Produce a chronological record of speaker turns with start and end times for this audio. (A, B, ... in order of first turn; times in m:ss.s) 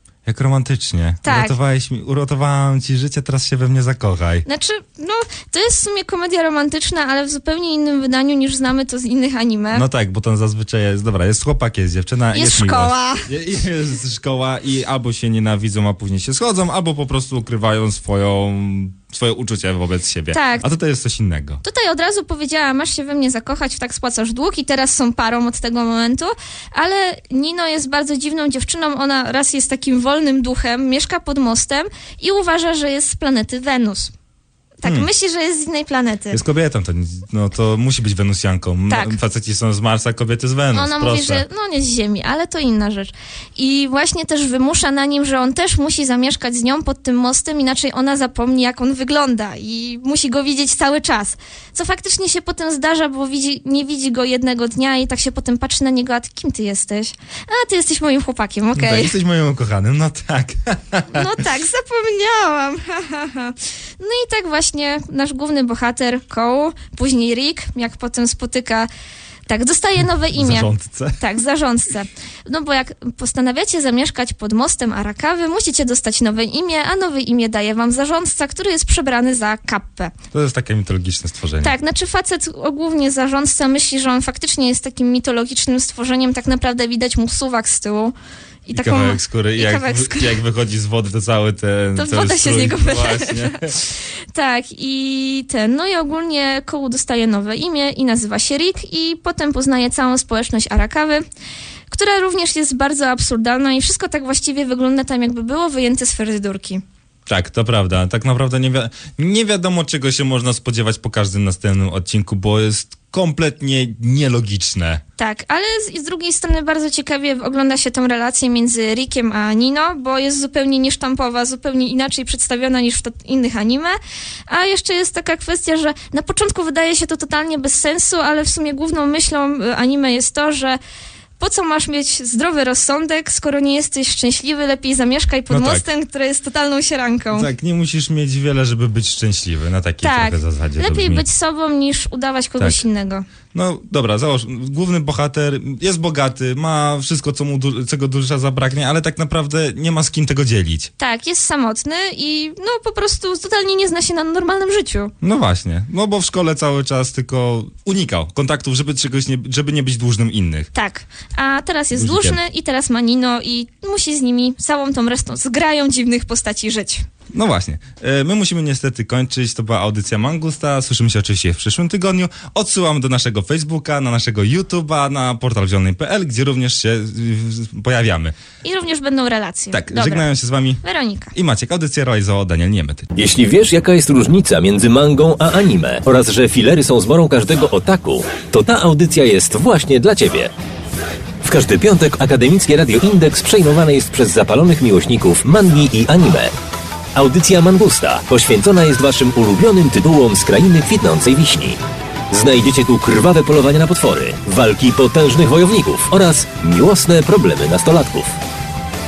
0:00.2-0:04.4 A
0:01.2-0:01.6 B
0:04.4-0:09.8 B
0:09.7-0:21.6 A
0:12.3-0:13.3 B
0:20.3-0:20.7 B
0:21.6-0:34.1 B
0:34.8-0:36.4 B
0:36.3-0:41.4 A
0:38.9-0:39.2 B
0:40.7-0:59.1 B
0:58.7-1:01.3 A
1:01.1-1:08.9 B
1:09.5-1:20.1 B
1:10.4-1:11.2 A
1:20.3-1:21.7 A
1:21.6-1:28.1 B
1:28.6-1:30.4 B
1:28.7-1:33.8 A
1:32.0-1:41.2 B
1:41.9-1:46.8 B
1:47.3-1:55.0 A
1:55.2-2:04.0 B
2:04.5-2:10.8 B
2:11.4-2:17.5 B
2:15.5-2:15.8 A
2:17.3-2:21.2 A
2:20.0-2:23.2 B
2:23.5-2:30.9 A
2:31.0-2:35.1 B
2:35.2-2:40.7 A
2:40.7-2:47.0 B
2:41.9-2:42.4 A
2:47.3-2:58.4 A
2:58.6-3:00.2 B
2:59.7-3:00.8 A
3:00.8-3:01.3 B
3:01.3-3:03.1 A
3:03.1-3:10.5 C
3:11.4-3:16.5 C
3:17.1-3:21.8 C
3:22.3-3:28.4 C